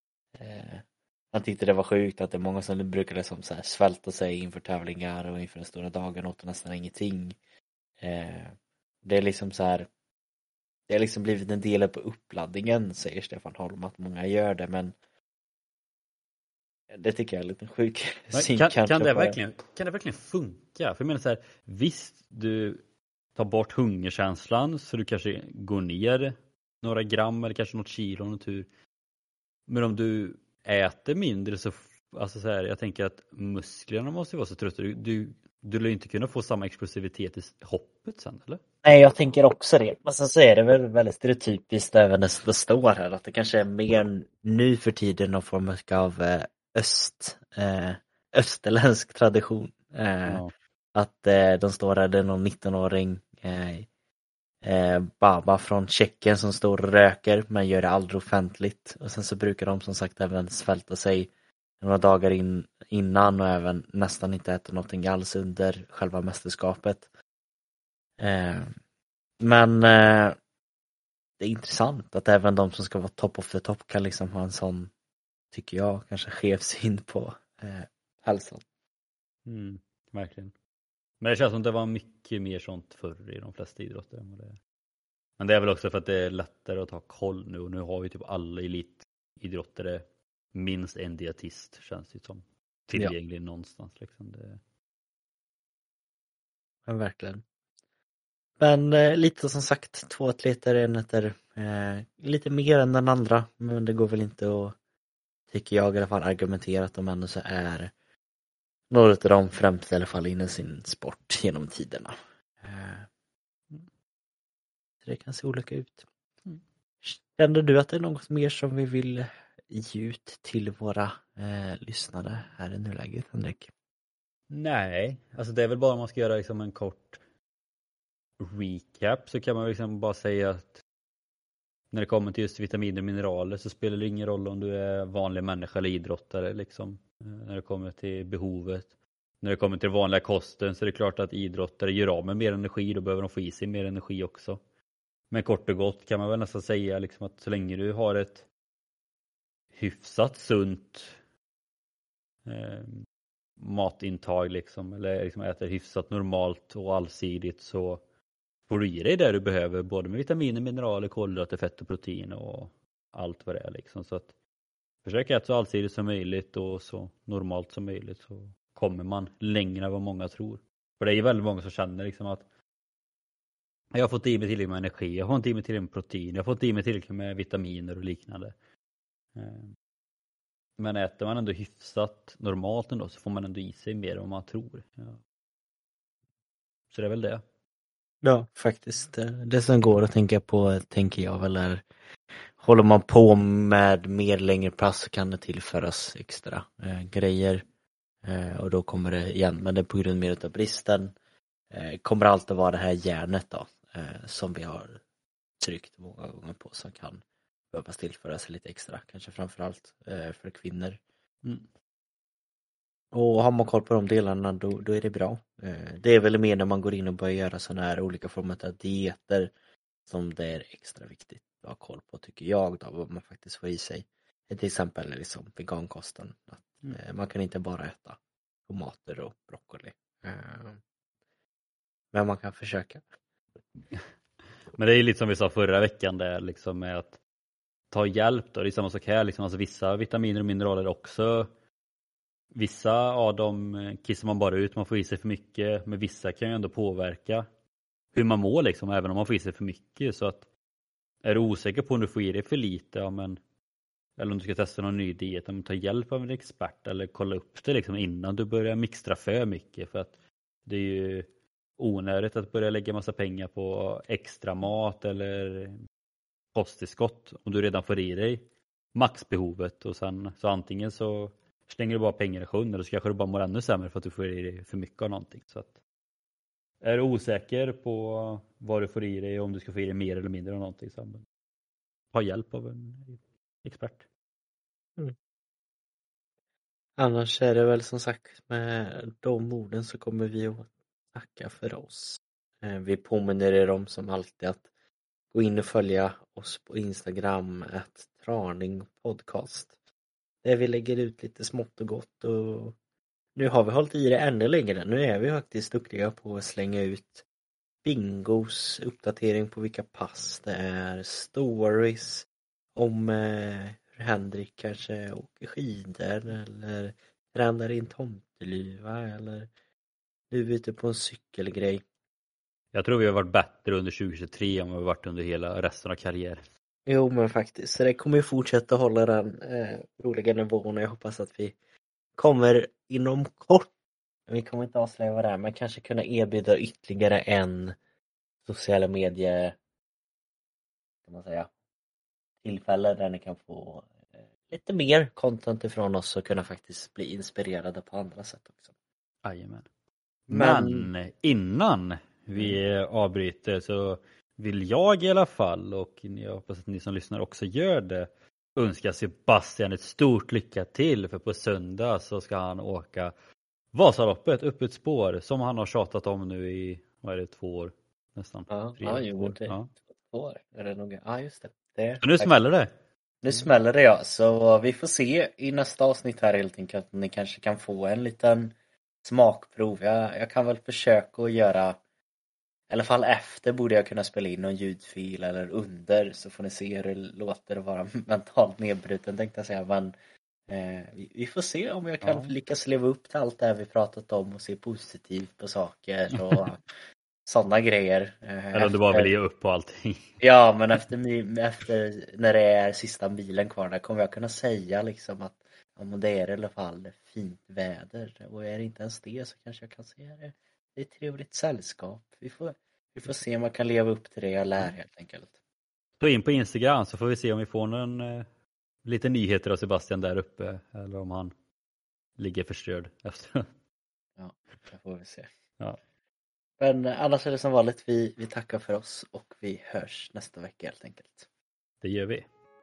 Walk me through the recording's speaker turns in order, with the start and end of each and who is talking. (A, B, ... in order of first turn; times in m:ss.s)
0:00.3-0:07.4 A
0:08.0-0:09.9 A
0:10.9-0:14.9 A
0:16.9-0:19.4 A
0:18.3-0:22.8 B
0:23.3-0:28.7 B
0:29.7-0:38.6 B
0:38.8-0:50.4 A
0:50.2-0:50.5 B
0:50.9-0:53.9 A
0:54.6-1:01.3 A
1:01.8-1:07.0 A
1:08.2-1:08.7 A
1:09.4-1:10.4 A
1:11.4-1:14.9 A
1:15.5-1:18.6 A
1:19.4-1:20.5 B
1:21.2-1:24.6 B
1:25.4-1:34.6 B
1:36.9-1:37.4 A
1:38.6-1:44.8 A
1:45.5-1:47.9 A
1:48.9-1:53.1 A
1:55.0-1:56.0 A
1:57.0-2:03.7 A
2:04.5-2:07.2 B
2:08.4-2:10.8 B
2:11.9-2:24.6 B
2:25.3-2:28.4 B
2:29.7-2:31.2 B
2:32.4-2:33.0 B
2:33.6-2:38.0 B
2:38.7-2:44.3 B
2:45.0-2:52.4 B
2:53.9-2:58.5 B
2:59.4-2:59.7 B
3:00.8-3:05.2 B
3:06.9-3:07.4 B
3:08.2-3:11.8 A
3:12.6-3:17.6 A
3:18.2-3:21.1 A
3:21.7-3:25.0 A
3:25.6-3:31.0 A
3:33.1-3:39.5 A
3:40.0-3:50.8 A
3:52.1-3:53.0 A
3:54.7-3:57.2 B
3:57.9-4:01.5 B
4:02.5-4:07.4 B
4:08.1-4:10.5 B
4:11.2-4:13.4 B
4:14.2-4:25.8 B
4:26.5-4:35.8 B
4:36.8-4:41.2 B
4:42.1-4:44.0 B
4:47.0-4:54.6 A
4:55.3-4:59.7 A
5:00.4-5:02.8 A
5:03.4-5:07.2 A
5:07.8-5:19.5 A
5:20.3-5:21.8 A
5:22.7-5:26.4 B
5:26.9-5:31.6 A
5:32.2-5:33.7 A
5:34.3-5:37.8 A
5:38.4-5:39.6 A
5:41.0-5:41.5 A
5:42.4-5:48.7 A
5:49.2-5:49.7 B
5:50.3-6:03.1 B
5:50.3-5:50.9 A
5:52.3-5:52.6 A
6:03.7-6:09.7 B
6:08.5-6:12.3 A
6:12.0-6:12.7 B
6:13.2-6:21.8 A
6:22.7-6:29.9 A
6:30.5-6:36.6 A
6:32.0-6:32.3 B
6:36.2-6:36.4 B
6:37.2-6:39.1 A
6:38.5-6:40.1 B
6:40.2-6:55.3 A
6:56.0-6:58.3 B
6:58.8-7:01.3 B
7:02.2-7:03.5 B
7:04.2-7:05.3 A
7:06.6-7:11.3 A
7:11.8-7:12.3 B